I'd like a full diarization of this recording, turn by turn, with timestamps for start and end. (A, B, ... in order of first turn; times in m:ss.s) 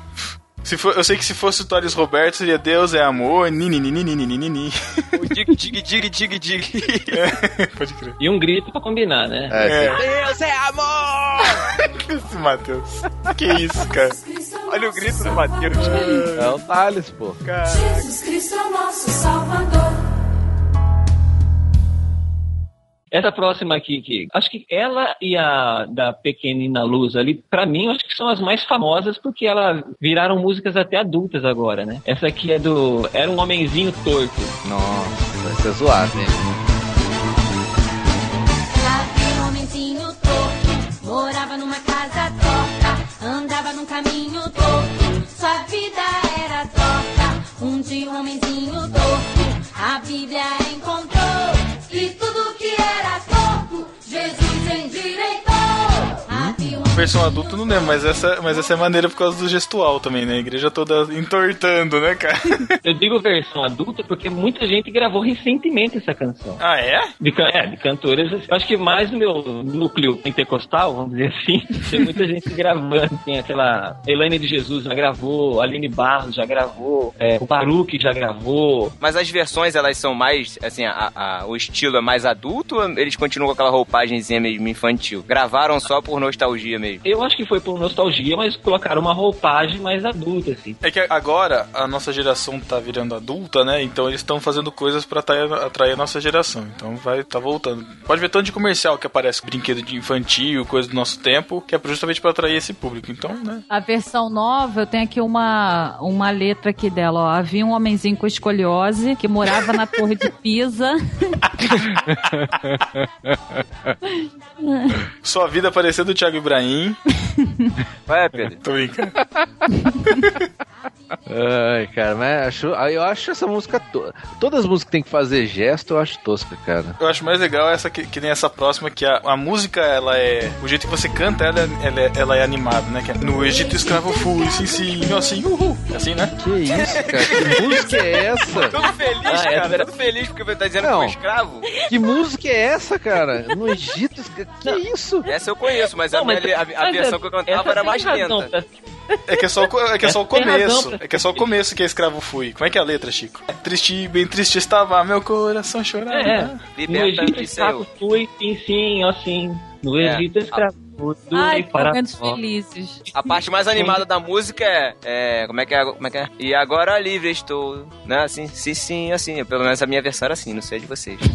0:00.6-0:05.2 A
0:05.1-0:07.2 B
0:07.1-0:08.2 A
0:08.2-0:09.6 C
0:09.5-0:11.7 D
0:09.6-0:10.1 A
0:11.7-0:14.2 A
0:13.9-0:16.2 E
0:14.7-0:16.1 B
0:15.7-0:16.6 A
0:16.3-0:17.4 D
0:17.6-0:20.0 E
0:23.1-0:34.6 C
0:34.6-0:36.5 D
0:38.8-0:57.1 E
0:56.3-0:56.6 D
0:56.9-1:02.7 A
1:02.8-1:06.6 C
1:06.6-1:07.1 A
1:07.2-1:19.0 C
1:19.0-1:27.0 B
1:27.0-1:30.8 C
1:30.8-1:43.6 A
1:43.7-1:51.5 F
1:51.7-1:54.0 D
1:54.6-1:55.1 F
1:55.2-1:57.0 A
1:57.4-1:57.7 F
1:58.1-1:58.6 B
1:58.6-1:59.2 A
2:01.3-2:07.0 D
2:07.0-2:16.4 A
2:16.4-2:18.8 D
2:16.8-2:17.9 B
2:18.5-2:21.7 B
2:19.2-2:19.9 C
2:20.8-2:21.2 D
2:21.8-2:25.3 D
2:25.3-2:28.5 B
2:26.1-2:28.9 C
2:29.3-2:36.6 A
2:30.0-2:31.5 C
2:36.1-2:42.0 C
2:36.7-2:37.9 B
2:40.0-2:40.6 B
2:41.3-2:43.4 F
2:43.1-2:51.3 B
2:43.7-2:44.0 C